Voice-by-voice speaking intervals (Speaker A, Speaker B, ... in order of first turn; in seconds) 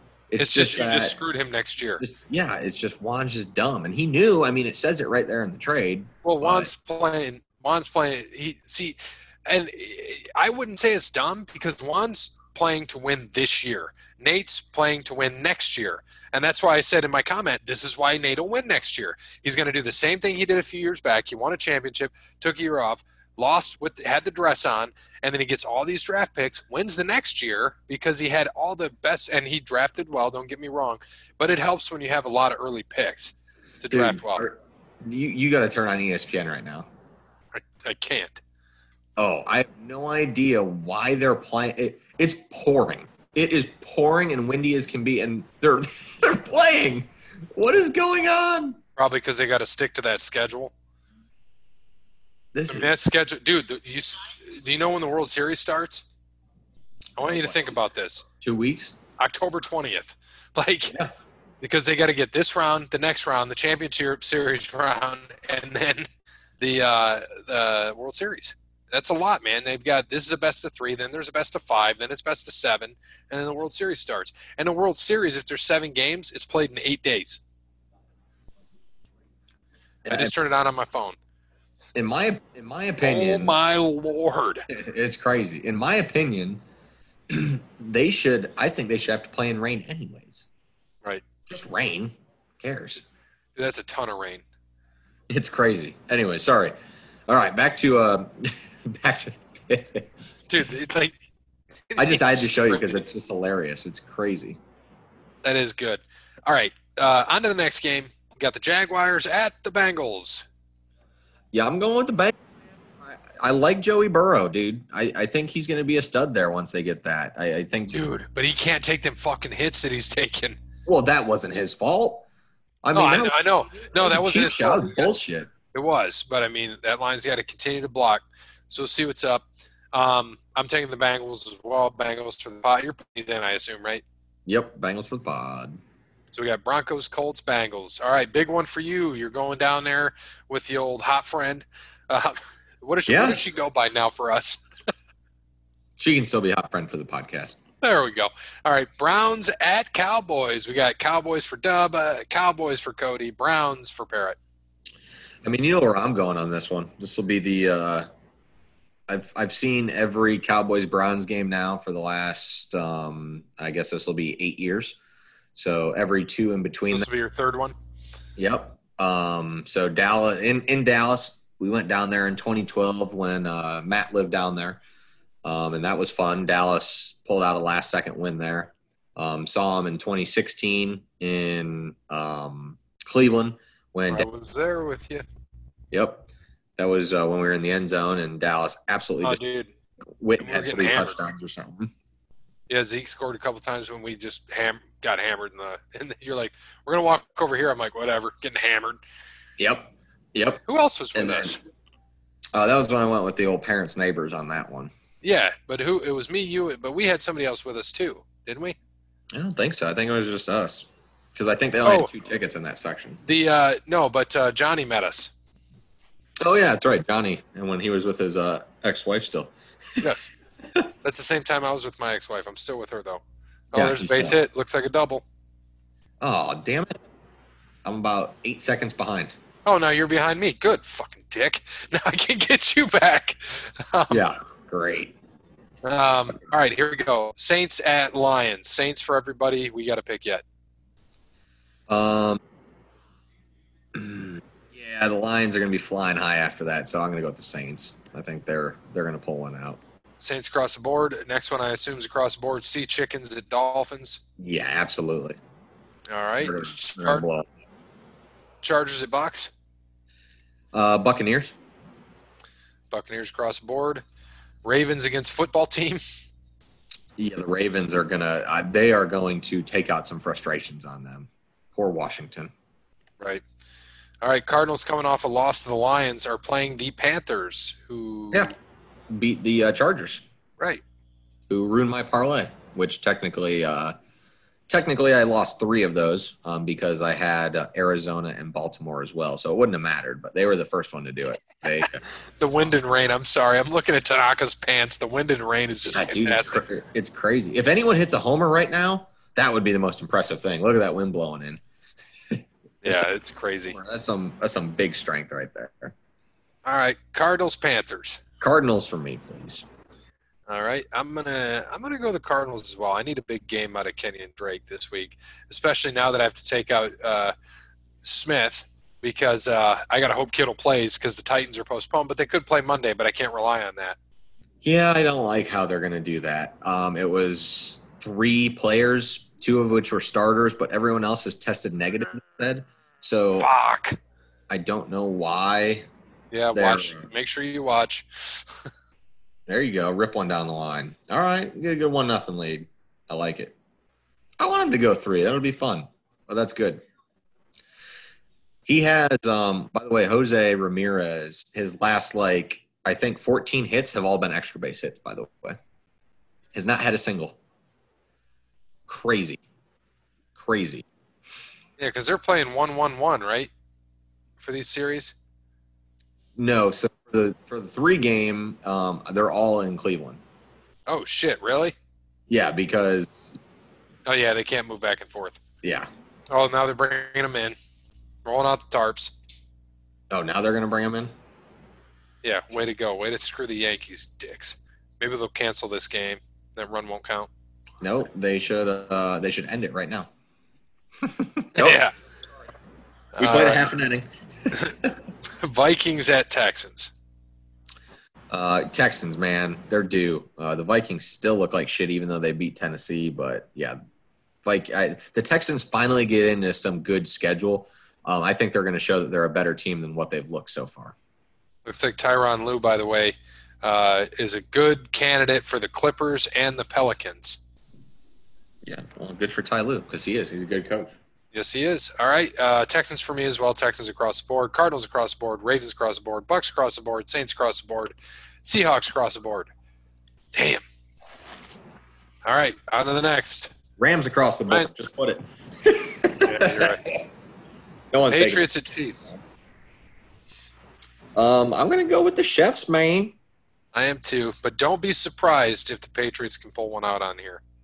Speaker A: 0.3-1.2, 2.0-6.7, 33.9-36.9, 39.2-48.8, 52.5-52.9, 57.2-57.8, 58.4-59.0, 80.0-80.3, 82.0-83.6, 84.7-86.6, 87.3-90.5, 91.5-93.0, 95.3-96.8, 97.3-100.2, 102.0-104.6, 111.5-112.4, 113.0-118.0, 120.9-122.3, 122.8-125.5, 134.5-135.8, 143.1-143.4, 146.0-147.6, 155.4-158.1, 159.1-165.0, 165.6-167.1, 168.4-174.8, 175.4-184.3, 185.9-189.4, 190.2-191.9, 199.6-200.6, 201.1-201.5, 202.5-204.9, 209.3-213.2, 216.4-220.1, 223.7-224.4, 226.2-227.0, 227.8-229.3, 234.1-235.2, 241.9-242.4, 243.9-249.8, 254.4-255.4, 256.4-257.5, 260.7-261.6, 267.2-272.5, 279.1-280.2, 281.5-283.9, 284.7-292.0, 295.9-301.6, 302.3-303.1, 303.7-305.9, 308.4-309.6, 324.6-333.5, 334.5-335.9, 336.5-337.1, 339.5-343.6, 344.4-346.9, 348.7-355.6, 356.5-357.4, 358.9-359.4, 360.4-360.9, 366.4-370.2, 372.3-373.2, 375.6-375.9, 380.1-381.1, 387.8-390.1, 391.0-391.8, 393.2-394.1, 398.3-403.8, 404.4-411.0, 418.6-421.0, 433.8-437.0, 437.9-438.5, 441.1-443.2
Speaker B: 0.4-2.0, 6.2-34.5, 37.5-38.4, 49.0-50.7, 52.7-56.1, 57.2-58.3, 59.2-61.0, 61.6-66.1, 66.6-77.4, 80.1-81.2, 83.0-84.7, 93.6-94.4, 100.5-101.2, 101.9-103.1, 105.4-110.5, 117.9-120.6, 123.0-125.2, 125.7-134.0, 136.3-144.6, 147.8-154.4, 166.8-167.8, 184.1-185.3, 189.2-189.7, 190.4-191.2, 192.7-199.0, 200.7-201.6, 205.2-208.8, 211.8-212.1, 213.2-215.3, 220.0-220.3, 221.0-225.2, 229.7-234.3, 235.8-240.4, 250.2-254.2, 256.1-257.3, 258.6-259.5, 262.9-264.0, 264.6-266.0, 274.2-278.5, 292.4-296.6, 302.8-303.8, 306.7-308.2, 310.5-317.3, 318.0-324.0, 333.4-334.0, 336.3-338.5, 361.8-363.5, 364.4-365.2, 370.9-371.8, 374.1-375.4, 376.3-377.6, 378.2-379.1, 382.2-387.3, 391.6-391.9, 393.2-393.7, 395.4-396.9, 411.7-417.4, 421.3-429.5, 430.3-430.6, 432.3-433.6, 436.2-436.8, 438.1-439.1, 443.7-447.4